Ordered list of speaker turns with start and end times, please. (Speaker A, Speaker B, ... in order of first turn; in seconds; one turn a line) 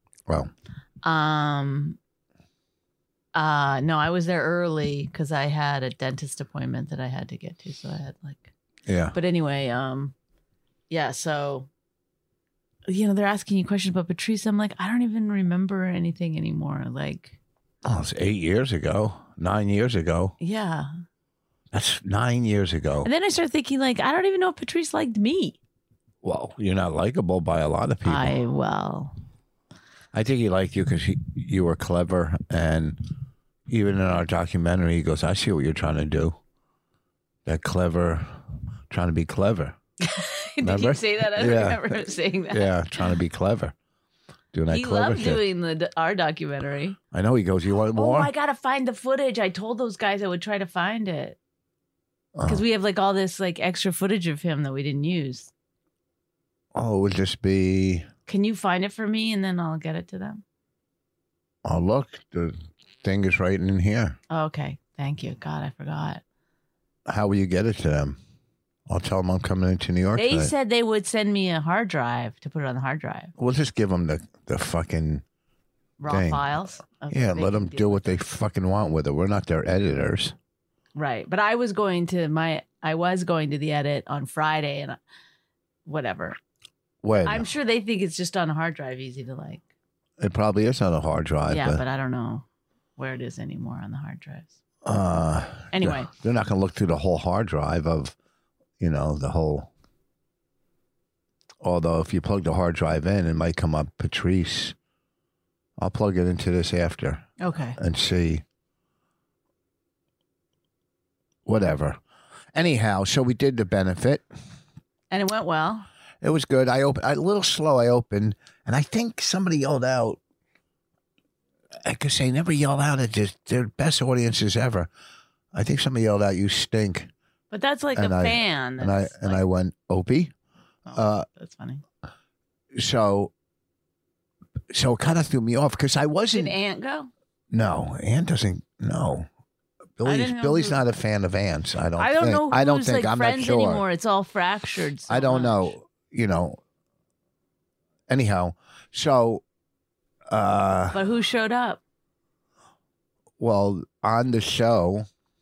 Speaker A: 1.0-2.0
Speaker A: 3.4-8.5
Speaker B: 8.9-9.2
Speaker A: 9.1-10.2
Speaker A: 10.9-11.7
Speaker A: 12.9-17.4
Speaker B: 17.9-20.4
Speaker A: 20.4-20.9
Speaker B: 21.7-23.1
Speaker A: 23.0-25.6
Speaker B: 26.2-28.4
Speaker A: 28.1-29.1
Speaker B: 30.1-33.0
Speaker B: 33.7-36.4
Speaker B: 37.5-38.4
Speaker B: 38.9-39.8
Speaker A: 40.0-43.1
Speaker B: 40.6-41.8
Speaker B: 42.5-43.8
Speaker B: 44.5-45.4
Speaker A: 44.7-47.0
Speaker B: 47.1-48.3
Speaker A: 48.0-51.4
Speaker B: 52.4-52.6
Speaker A: 52.5-55.5
Speaker B: 56.7-58.1
Speaker A: 58.3-60.4
Speaker B: 61.6-64.2
Speaker A: 64.3-66.2
Speaker B: 67.1-68.2
Speaker B: 68.9-70.5
Speaker A: 70.2-73.3
Speaker B: 73.4-75.2
Speaker A: 76.0-78.2
Speaker B: 76.1-76.5
Speaker B: 77.1-80.3
Speaker A: 81.0-85.0
Speaker A: 85.9-86.4
Speaker B: 87.0-87.5
Speaker A: 87.2-89.7
Speaker B: 90.2-91.8
Speaker A: 91.5-92.5
Speaker A: 93.0-94.5
Speaker B: 94.8-98.2
Speaker A: 95.7-96.1
Speaker B: 98.8-99.7
Speaker B: 101.6-104.8
Speaker B: 105.8-108.4
Speaker A: 107.4-107.8
Speaker B: 111.5-112.0
Speaker B: 112.5-114.2
Speaker A: 115.1-115.9
Speaker B: 116.2-120.2
Speaker B: 121.8-124.9
Speaker B: 125.5-127.1
Speaker A: 127.5-129.4
Speaker B: 128.0-130.3
Speaker A: 130.9-131.8
Speaker B: 130.9-131.3
Speaker B: 132.8-133.3
Speaker B: 134.7-136.6
Speaker A: 136.3-137.1
Speaker B: 137.5-139.3
Speaker B: 140.0-143.8
Speaker A: 140.0-140.8
Speaker A: 142.0-145.7
Speaker B: 145.1-146.6
Speaker B: 148.1-149.4
Speaker B: 150.3-151.0
Speaker A: 150.9-151.8
Speaker B: 153.4-155.1